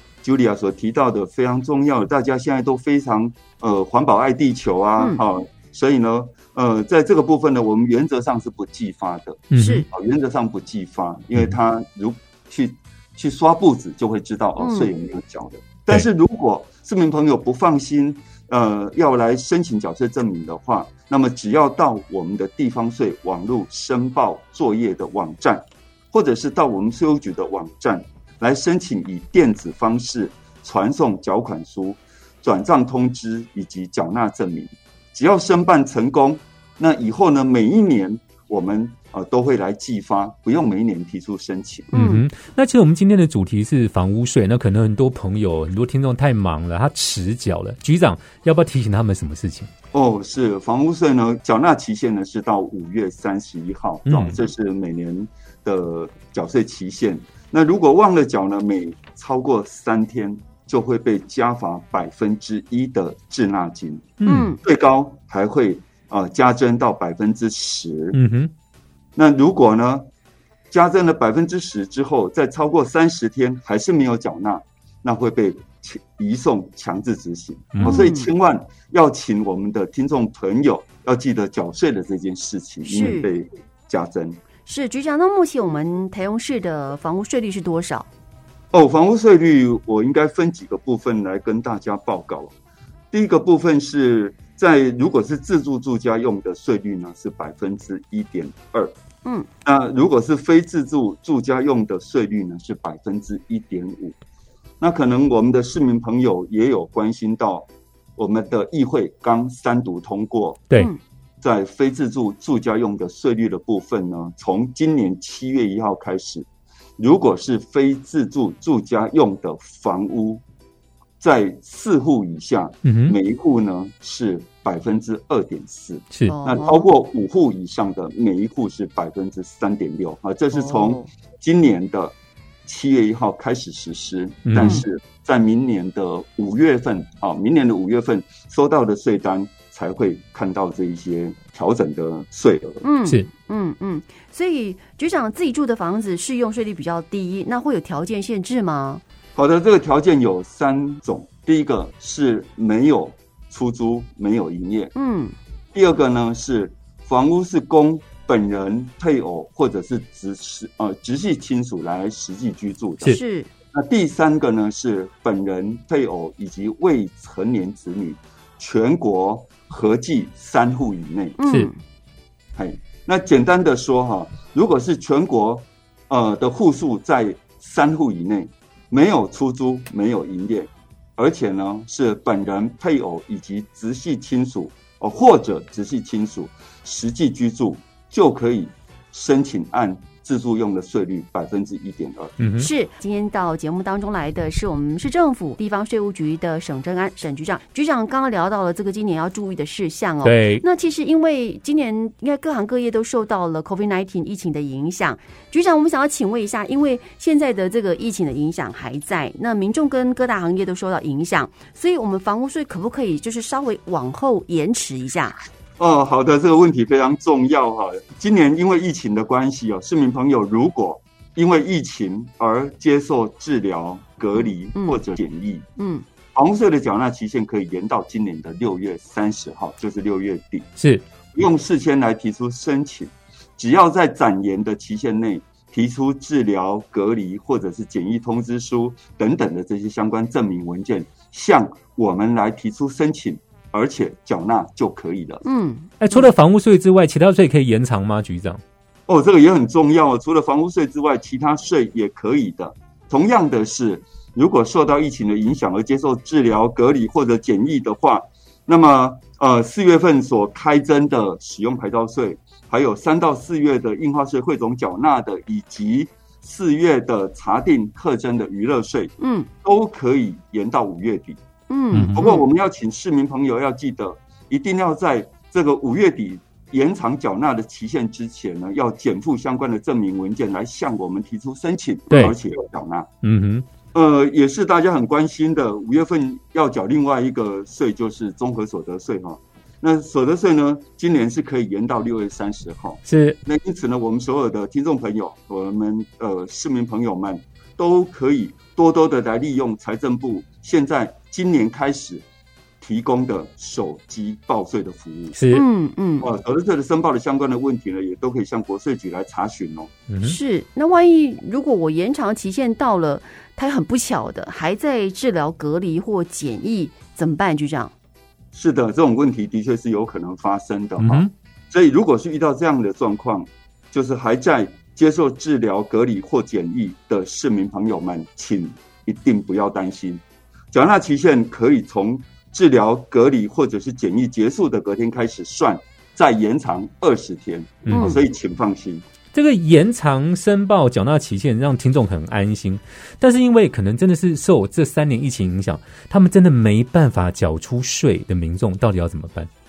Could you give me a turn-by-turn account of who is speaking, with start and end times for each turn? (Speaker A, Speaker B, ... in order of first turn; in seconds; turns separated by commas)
Speaker A: 0.2-41.9, Speaker B: 9.5-9.8, Speaker C: 9.5-9.8, Speaker C: 14.6-14.9, Speaker C: 41.9-42.2, Speaker B: 41.9-49.7, Speaker A: 49.9-68.2, Speaker B: 54.1-54.4, Speaker B: 64.2-64.5, Speaker C: 64.2-64.6, Speaker B: 68.1-68.5, Speaker A: 69.2-70.0, Speaker A: 70.7-84.4, Speaker C: 77.8-78.3, Speaker C: 82.8-83.3, Speaker C: 84.6-88.1, Speaker A: 88.7-92.5, Speaker A: 93.1-98.9, Speaker A: 99.6-104.2, Speaker A: 104.8-107.7, Speaker A: 108.2-110.7, Speaker A: 111.4-116.5, Speaker A: 117.0-120.4, Speaker A: 121.2-132.1, Speaker B: 122.8-123.2, Speaker C: 126.3-126.9, Speaker C: 130.5-131.1, Speaker A: 132.7-142.8, Speaker B: 134.5-134.8, Speaker C: 134.6-134.8, Speaker C: 142.8-149.0, Speaker A: 149.3-154.9, Speaker C: 154.9-155.3, Speaker A: 155.7-163.2, Speaker C: 163.0-163.5, Speaker A: 163.7-171.4, Speaker C: 171.4-171.8, Speaker A: 172.5-192.4, Speaker B: 192.4-192.7, Speaker C: 192.6-215.4, Speaker B: 200.2-200.6, Speaker A: 215.8-225.7, Speaker C: 224.7-225.0, Speaker C: 225.8-226.0, Speaker A: 226.3-230.7, Speaker B: 230.8-231.0, Speaker A: 231.3-245.4, Speaker C: 245.4-245.9, Speaker B: 246.0-248.6, Speaker A: 249.1-271.4, Speaker C: 269.2-269.5, Speaker C: 271.7-272.4, Speaker B: 271.9-272.2, Speaker A: 272.1-283.1, Speaker B: 282.1-282.4, Speaker B: 283.2-283.6, Speaker A: 283.9-302.2, Speaker B: 293.1-293.4, Speaker A: 302.8-305.4, Speaker B: 305.3-305.6, Speaker C: 305.5-306.3, Speaker A: 306.2-309.9, Speaker B: 310.1-310.4, Speaker C: 310.2-317.9, Speaker A: 318.5-339.0, Speaker B: 321.0-321.3, Speaker B: 337.9-338.2, Speaker C: 337.9-338.2, Speaker B: 339.3-349.5